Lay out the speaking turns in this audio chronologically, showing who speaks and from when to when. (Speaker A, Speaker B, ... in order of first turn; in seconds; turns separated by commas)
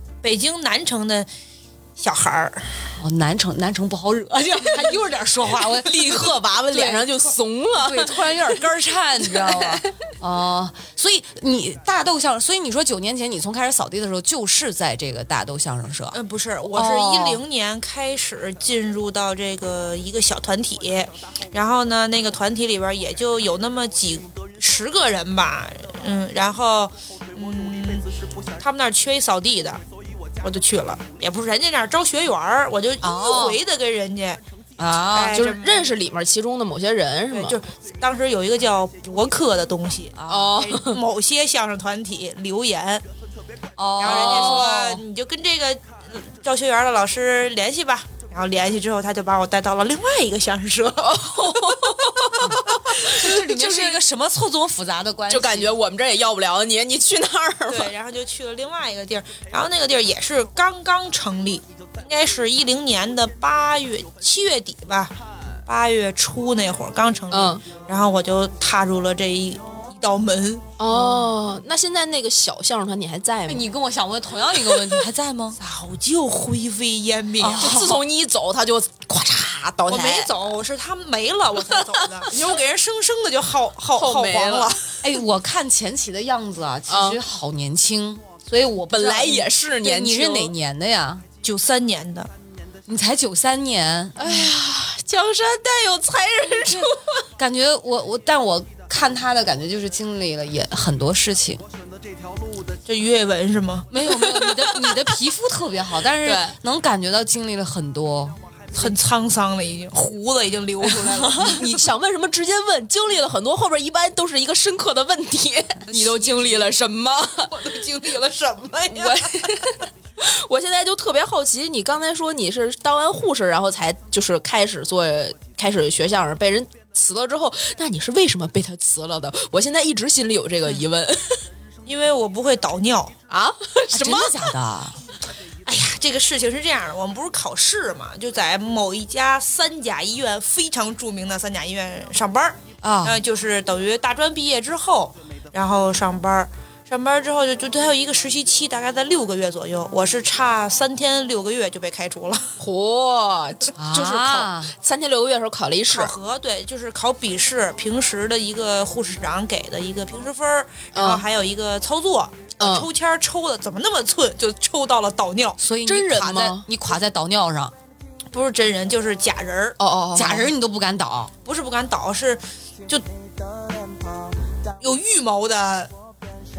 Speaker A: 0.2-1.3, Speaker A: 2.0-2.7, Speaker B: 3.0-7.2, Speaker C: 5.8-8.5, Speaker B: 7.7-16.1, Speaker C: 9.3-9.8, Speaker A: 16.1-29.8, Speaker B: 16.7-17.4, Speaker A: 30.4-34.4, Speaker B: 33.0-33.6, Speaker B: 34.8-35.4, Speaker A: 35.1-35.9, Speaker C: 35.3-37.6, Speaker A: 37.3-43.0, Speaker B: 40.2-40.5, Speaker C: 40.3-41.0, Speaker B: 43.8-45.0, Speaker A: 44.0-52.4, Speaker C: 44.1-44.6, Speaker C: 51.0-54.0, Speaker B: 52.4-55.7, Speaker C: 55.3-57.9, Speaker A: 57.7-65.1, Speaker A: 65.7-70.7, Speaker C: 67.3-67.6, Speaker C: 70.8-73.7, Speaker B: 70.9-71.3, Speaker B: 73.5-75.6, Speaker A: 75.6-77.7, Speaker B: 77.4-78.0, Speaker C: 77.5-80.4, Speaker A: 79.9-84.8, Speaker C: 81.7-82.3, Speaker C: 83.9-84.8, Speaker B: 85.0-91.2, Speaker C: 86.9-87.2, Speaker C: 88.9-90.5, Speaker A: 91.4-92.3, Speaker B: 92.9-94.5, Speaker C: 94.2-97.2, Speaker B: 96.6-101.6, Speaker A: 102.8-103.9, Speaker B: 103.9-108.4, Speaker C: 104.0-105.2, Speaker C: 106.2-106.5, Speaker A: 108.7-111.7, Speaker B: 111.0-111.3, Speaker C: 111.3-117.6, Speaker B: 115.9-116.4, Speaker A: 117.5-119.6, Speaker C: 118.9-131.4, Speaker A: 131.8-133.1, Speaker C: 133.3-134.5, Speaker B: 133.9-135.0, Speaker A: 135.7-152.6, Speaker B: 142.8-143.2, Speaker C: 152.6-156.1, Speaker B: 153.8-154.7, Speaker A: 155.9-165.6, Speaker C: 160.9-161.2, Speaker C: 162.6-162.9, Speaker B: 165.6-167.7, Speaker C: 165.8-166.7, Speaker A: 168.3-169.8, Speaker C: 169.8-170.5, Speaker B: 170.1-171.3, Speaker A: 171.4-173.0, Speaker A: 174.8-175.9